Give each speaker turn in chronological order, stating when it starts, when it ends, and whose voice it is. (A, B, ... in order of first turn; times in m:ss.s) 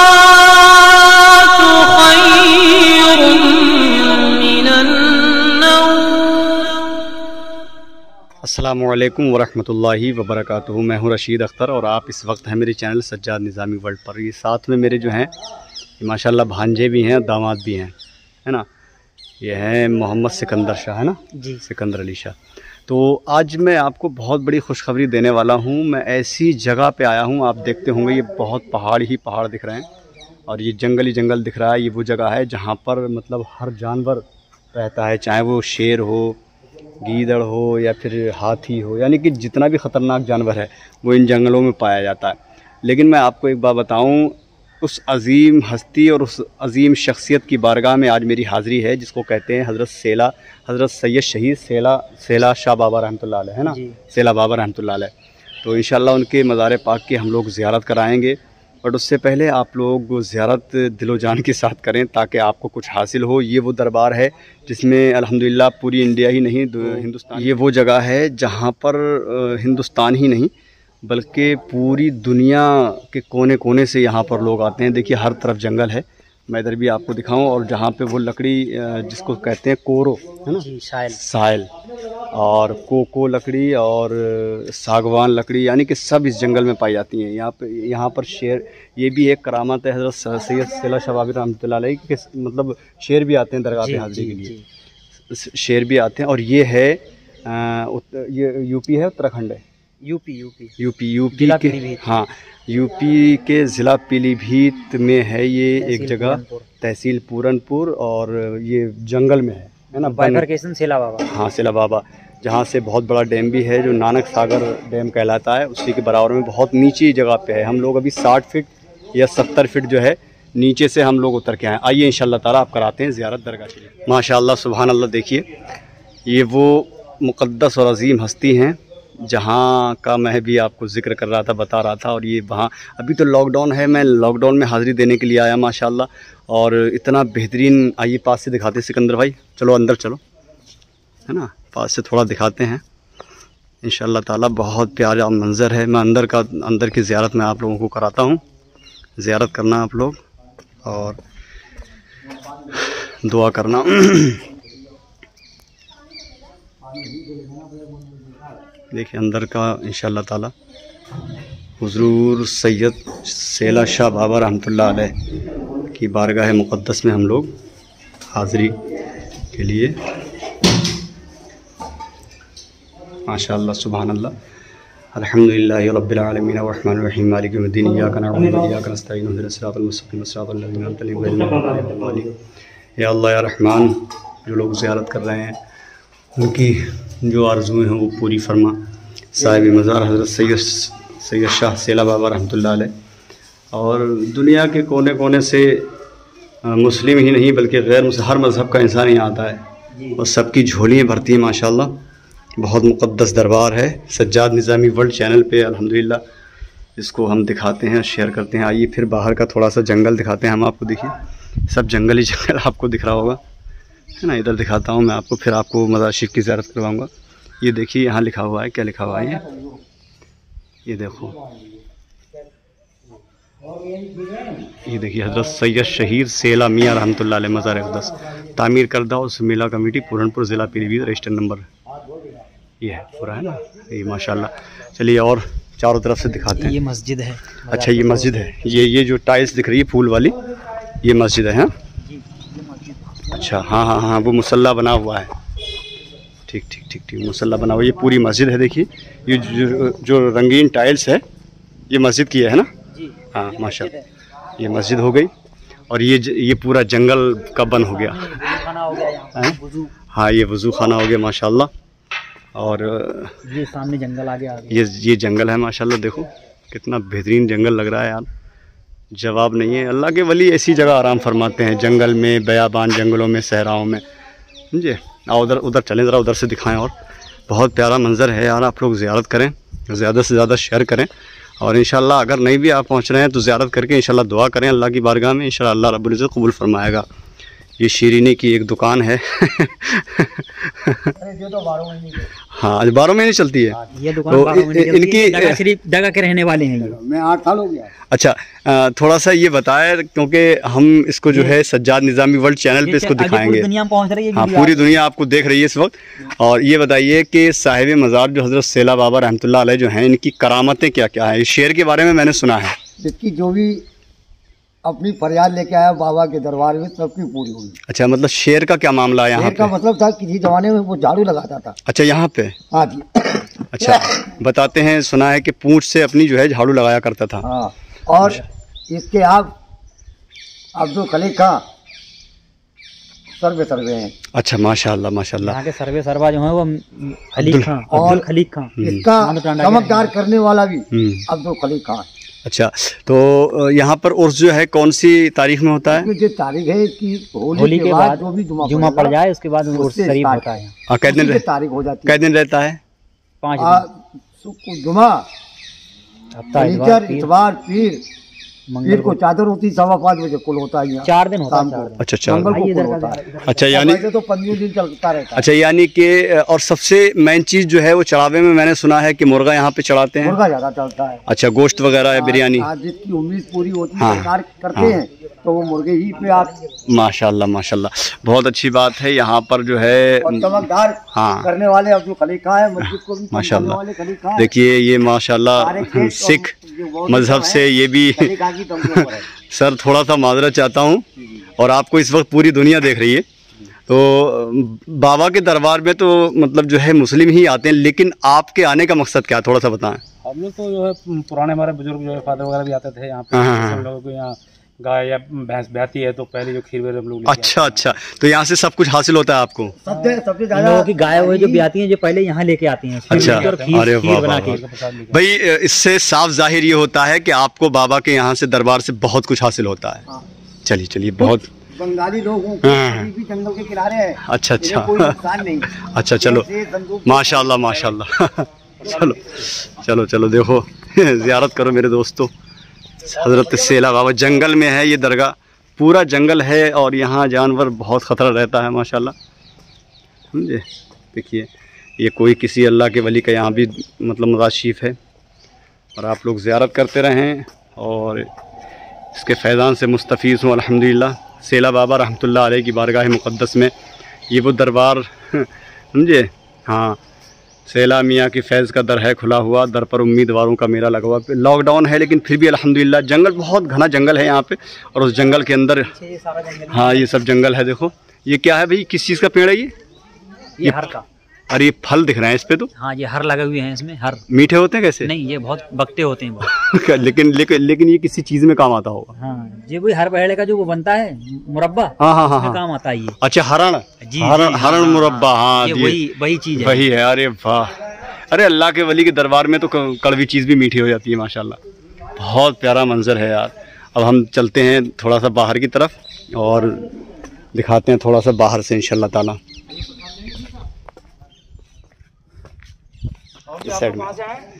0:01.6-0:03.6 A
0:04.4-0:04.9 A
0:08.4-0:15.3 B
0:16.0-0:17.9 B
0:19.4-0:22.4 B
0:21.3-0:21.6 C
0:22.9-0:29.9 B
0:30.5-0:36.4 B
0:37.0-0:55.1 B
0:53.6-0:54.0 C
0:55.6-1:10.5 B
1:11.0-1:21.7 B
1:20.6-1:21.2 C
1:22.3-1:34.5 B
1:33.8-1:34.6 C
1:35.3-1:39.6 B
1:40.0-1:40.7 C
1:40.8-1:50.5 B
1:41.3-1:42.0 C
1:45.8-1:46.7 C
1:49.9-1:51.3 C
1:51.3-2:05.5 B
2:06.2-2:20.2 B
2:21.3-2:22.8 B
2:23.8-2:28.4 B
2:29.2-2:30.2 B
2:30.8-2:31.2 B
2:32.7-2:34.5 B
2:36.9-2:38.4 D
2:38.9-2:40.5 B
2:41.8-2:45.1 B
2:45.9-2:47.5 B
2:48.3-2:48.8 B
2:49.5-2:50.0 B
2:53.2-2:54.3 B
2:55.1-3:02.3 B
3:03.0-3:05.6 B
3:06.4-3:08.8 B
3:09.3-3:12.9 B
3:13.7-3:15.9 B
3:16.6-3:19.6 B
3:19.9-3:20.2 C
3:20.2-3:22.0 B
3:22.6-3:26.2 B
3:27.0-3:33.4 B
3:34.2-3:37.1 B
3:37.6-3:39.4 B
3:39.4-3:39.8 D
3:40.8-3:41.4 B
3:44.2-3:44.5 D
3:44.8-3:51.7 B
3:52.8-3:56.8 B
3:56.6-3:58.5 C
3:57.7-4:00.4 B
4:01.0-4:01.7 B
4:02.0-4:03.2 C
4:03.2-4:05.3 B
4:06.5-4:11.2 B
4:11.9-4:12.7 B
4:12.9-4:14.1 C
4:13.3-4:13.9 B
4:14.6-4:15.3 B
4:15.9-4:18.4 B
4:17.7-4:19.9 C
4:20.1-4:21.7 B
4:22.5-4:23.5 B
4:23.4-4:24.8 C
4:24.7-4:28.3 B
4:29.1-4:34.0 B
4:34.7-4:36.9 B
4:37.5-4:41.1 B
4:41.6-4:47.0 B
4:47.8-4:51.1 B
4:51.2-4:52.3 D
4:52.5-4:55.6 B
4:53.9-4:57.0 C
4:56.8-4:57.9 D
4:58.1-5:03.7 B
5:01.3-5:01.6 C
5:02.8-5:05.0 C
5:04.3-5:12.8 B
5:13.0-5:13.8 D
5:14.8-5:17.8 D
5:17.9-5:19.7 B
5:19.3-5:21.8 D
5:21.8-5:22.6 B
5:22.7-5:24.3 D
5:23.7-5:27.5 B
5:27.4-5:29.5 D
5:30.7-5:31.6 D
5:33.4-5:34.1 D
5:34.3-5:35.6 B
5:35.4-5:40.1 C
5:37.4-5:38.2 B
5:37.9-5:38.2 D
5:38.8-5:39.1 B
5:38.8-5:42.1 D
5:40.9-5:41.3 B
5:42.4-5:46.1 B
5:45.9-5:49.2 D
5:47.5-5:50.7 C
5:49.7-5:50.5 D
5:50.9-5:51.4 B
5:51.0-5:52.2 D
5:52.0-5:52.8 B
5:53.4-5:53.8 C
5:53.6-5:55.2 D
5:56.3-5:57.3 C
5:56.6-5:58.0 D
5:58.7-5:59.2 C
5:58.8-6:05.5 D
6:01.0-6:03.7 C
6:02.0-6:02.6 B
6:03.4-6:04.0 B
6:05.3-6:10.4 B
6:10.2-6:11.2 D
6:11.2-6:12.7 B
6:12.1-6:16.6 D
6:14.0-6:15.0 B
6:16.8-6:21.5 B
6:20.2-6:24.5 D
6:22.8-6:26.5 B
6:25.6-6:29.3 D
6:27.1-6:33.2 B
6:33.9-6:40.0 B
6:40.2-6:47.9 E
6:43.3-6:43.9 B
6:47.2-6:49.8 B
6:49.8-6:51.6 D
6:49.9-6:50.2 E
6:50.5-6:54.6 C
6:53.1-7:00.0 B
6:53.1-6:53.9 E
6:54.4-6:55.2 E
7:00.6-7:01.5 B
7:01.2-7:07.9 D
7:02.6-7:03.1 B
7:04.2-7:06.5 B
7:07.0-7:12.3 B
7:08.8-7:09.1 D
7:13.0-7:19.1 B
7:20.3-7:25.0 B
7:26.0-7:28.3 B
7:29.1-7:33.7 B
7:34.3-7:37.0 B
7:37.7-7:45.9 B
7:45.8-7:47.2 C
7:46.7-7:49.7 B
7:50.6-7:51.0 C
7:50.6-7:50.9 B
7:51.5-7:52.7 B
7:52.7-7:54.2 C
7:54.3-7:55.1 B
7:55.0-7:56.5 C
7:56.4-7:59.1 B
7:59.2-8:03.2 C
8:02.0-8:02.6 B
8:03.2-8:06.0 B
8:04.0-8:06.8 C
8:06.5-8:11.6 B
8:12.2-8:16.9 B
8:17.5-8:19.4 B
8:23.5-8:24.3 B